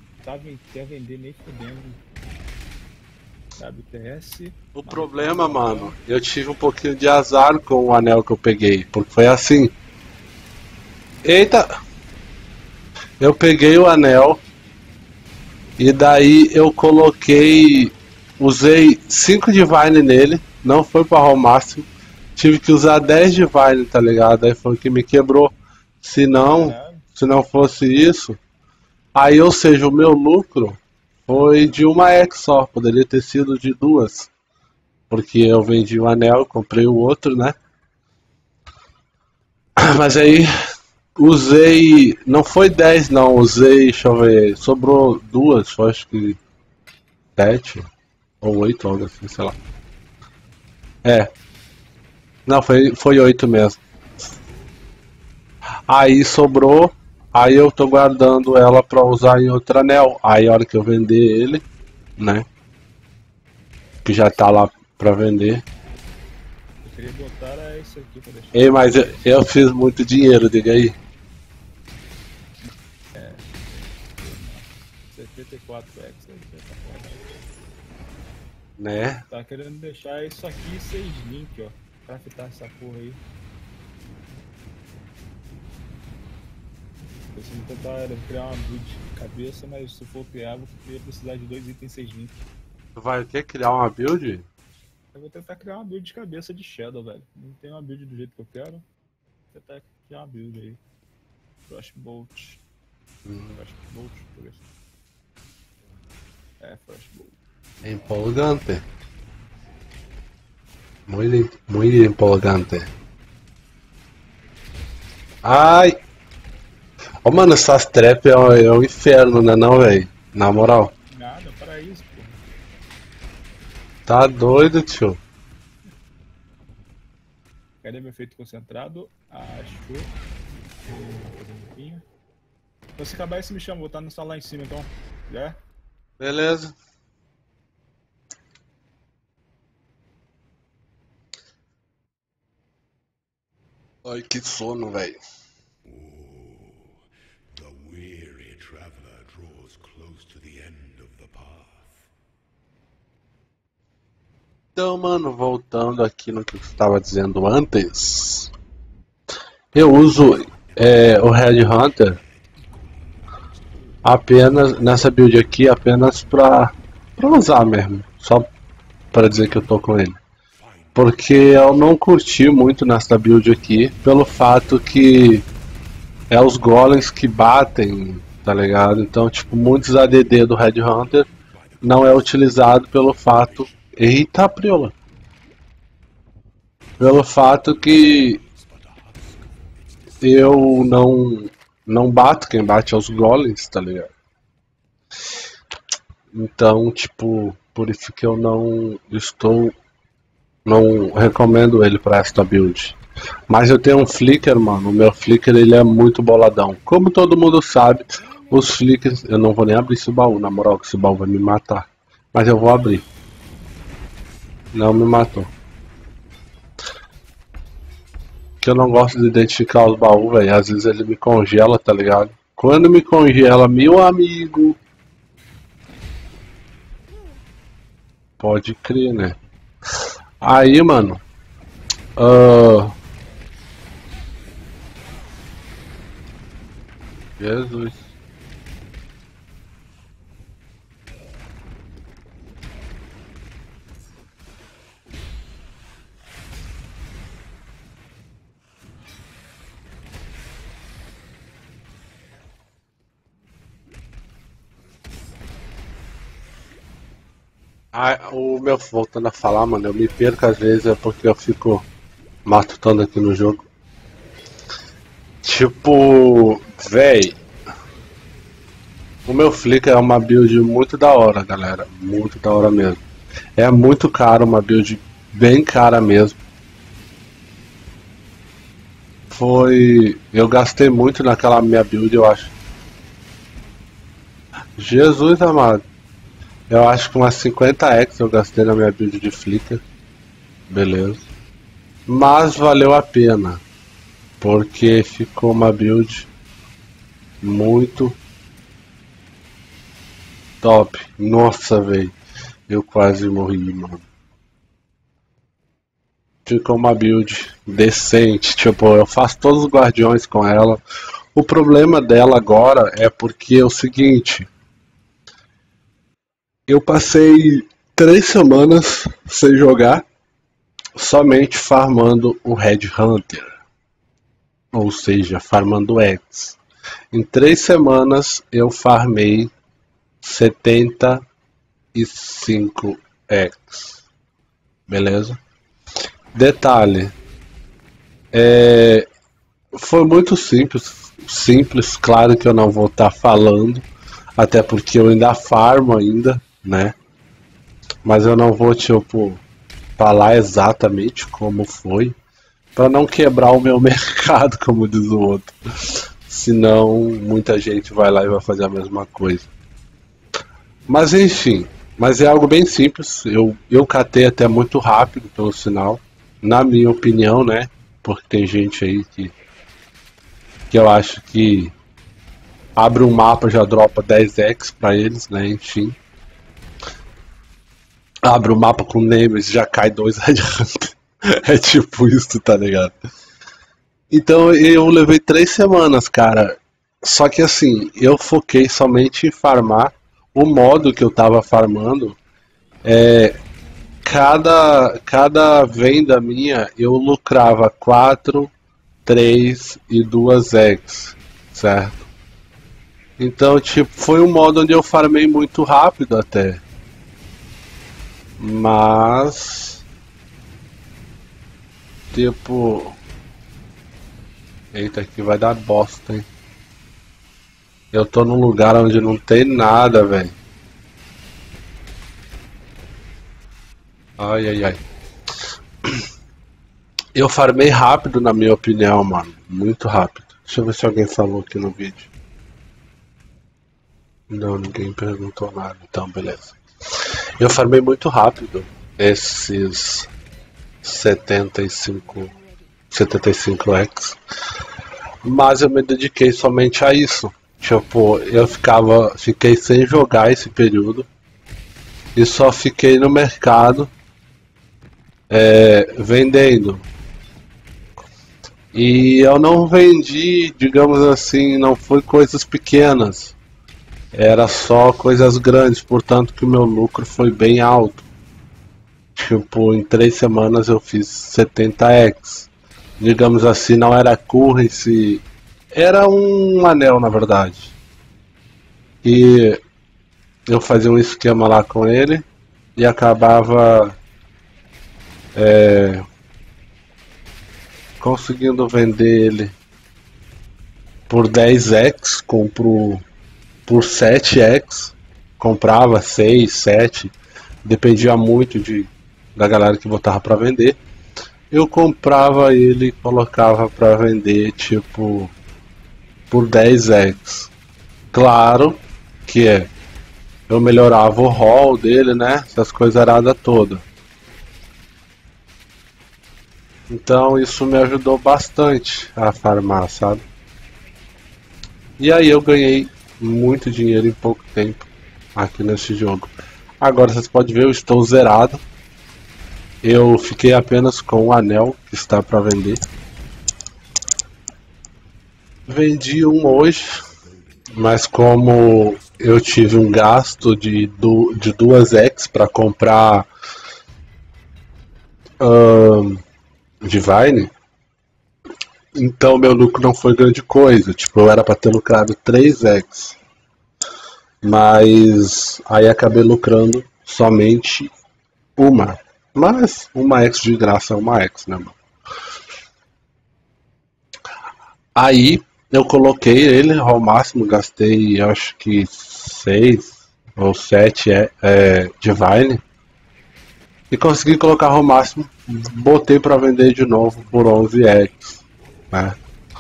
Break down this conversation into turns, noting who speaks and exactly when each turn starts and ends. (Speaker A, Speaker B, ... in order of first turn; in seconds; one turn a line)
Speaker A: 0.2-2.0
Speaker A: 3.6-6.0
Speaker B: 4.7-9.7
Speaker B: 11.2-11.7
Speaker B: 13.2-14.4
Speaker B: 15.8-28.4
Speaker A: 26.4-27.1
Speaker B: 29.1-34.3
Speaker B: 35.1-37.6
Speaker B: 39.8-40.5
Speaker B: 41.2-46.4
Speaker B: 47.4-47.9
Speaker B: 48.4-49.6
Speaker B: 51.0-51.3
Speaker B: 52.5-53.8
Speaker B: 55.9-61.6
Speaker B: 62.2-62.5
Speaker B: 64.0-65.6
Speaker A: 66.8-68.8
Speaker B: 68.5-71.0
Speaker A: 73.1-77.2
Speaker B: 78.8-79.2
Speaker A: 79.3-83.2
Speaker A: 87.3-92.4
Speaker B: 93.0-94.4
Speaker A: 95.1-98.8
Speaker A: 99.5-100.8
Speaker A: 101.7-102.6
Speaker B: 103.2-103.5
Speaker A: 103.5-104.6
Speaker A: 106.6-107.4
Speaker B: 107.8-108.8
Speaker B: 111.1-112.9
Speaker B: 115.4-116.0
Speaker B: 117.2-120.9
Speaker A: 121.1-122.4
Speaker B: 124.1-125.2
Speaker A: 127.8-130.1
Speaker A: 130.8-132.0
Speaker A: 133.0-135.6
Speaker B: 136.2-136.8
Speaker B: 144.1-145.2
Speaker C: 145.8-152.1
Speaker B: 154.8-158.5
Speaker B: 159.7-162.2
Speaker C: 160.4-164.1
Speaker B: 164.0-168.5
Speaker B: 169.1-170.2
Speaker C: 170.5-171.3
Speaker B: 170.9-175.4
Speaker B: 176.3-181.3
Speaker C: 181.3-183.9
Speaker B: 181.8-184.9
Speaker B: 187.0-188.4
Speaker C: 187.1-191.1
Speaker B: 190.2-194.1
Speaker B: 196.3-199.8
Speaker B: 200.7-203.0
Speaker B: 203.5-213.1
Speaker B: 214.7-215.5
Speaker B: 218.6-224.8
Speaker B: 228.4-229.4
Speaker B: 230.4-231.2
Speaker B: 232.2-232.9
Speaker B: 237.4-238.1
Speaker B: 257.9-261.9
Speaker B: 262.5-263.6
Speaker B: 265.4-267.4
Speaker B: 269.2-273.0
Speaker B: 273.6-276.4
Speaker B: 279.3-282.5
Speaker B: 284.8-285.8
Speaker B: 286.7-289.8
Speaker B: 290.7-291.2
Speaker B: 292.1-293.6
Speaker B: 294.4-296.3
Speaker B: 297.4-298.2
Speaker B: 300.6-302.1
Speaker B: 302.7-304.1
Speaker B: 306.5-310.8
Speaker B: 311.4-314.5
Speaker B: 316.7-320.1
Speaker B: 321.0-323.6
Speaker B: 324.7-326.6
Speaker B: 327.1-329.5
Speaker B: 330.2-331.2
Speaker B: 331.9-334.0
Speaker B: 334.9-335.4
Speaker B: 336.3-337.1
Speaker B: 338.3-339.1
Speaker B: 339.7-343.9
Speaker B: 344.4-346.9
Speaker B: 348.1-349.4
Speaker B: 350.0-352.1
Speaker B: 352.8-359.5
Speaker B: 360.9-369.3
Speaker B: 370.7-371.7
Speaker B: 372.8-376.0
Speaker B: 378.2-383.0
Speaker B: 384.1-392.2
Speaker B: 392.8-393.4
Speaker B: 394.1-398.5
Speaker B: 399.1-402.1
Speaker B: 403.2-406.6
Speaker B: 408.4-409.8
Speaker B: 412.1-413.0
Speaker B: 414.7-416.2
Speaker B: 417.9-420.3
Speaker B: 424.2-424.8
Speaker B: 427.1-432.1
Speaker B: 434.3-436.6
Speaker B: 437.4-440.1
Speaker B: 440.8-442.3
Speaker B: 442.9-444.2
Speaker B: 445.2-451.1
Speaker B: 452.1-453.9
Speaker B: 455.3-456.9
Speaker B: 458.7-463.4
Speaker B: 464.1-468.1
Speaker B: 469.1-472.5
Speaker B: 473.0-477.8
Speaker B: 479.0-479.6
Speaker B: 480.5-484.0
Speaker B: 485.4-486.1
Speaker B: 488.0-489.6
Speaker B: 491.1-493.0
Speaker B: 493.7-497.1
Speaker B: 497.6-500.8
Speaker B: 501.5-505.3
Speaker B: 506.3-507.5
Speaker B: 508.1-509.7
Speaker B: 510.5-513.8
Speaker B: 516.9-520.2
Speaker B: 522.0-528.6
Speaker B: 529.8-532.8
Speaker B: 535.7-536.9
Speaker C: 537.0-540.4
Speaker B: 537.7-543.3
Speaker B: 545.4-546.2
Speaker B: 546.8-547.5
Speaker B: 548.9-553.2
Speaker B: 554.4-557.9
Speaker B: 558.6-561.8
Speaker B: 564.9-572.6
Speaker B: 573.9-578.4
Speaker C: 577.0-579.2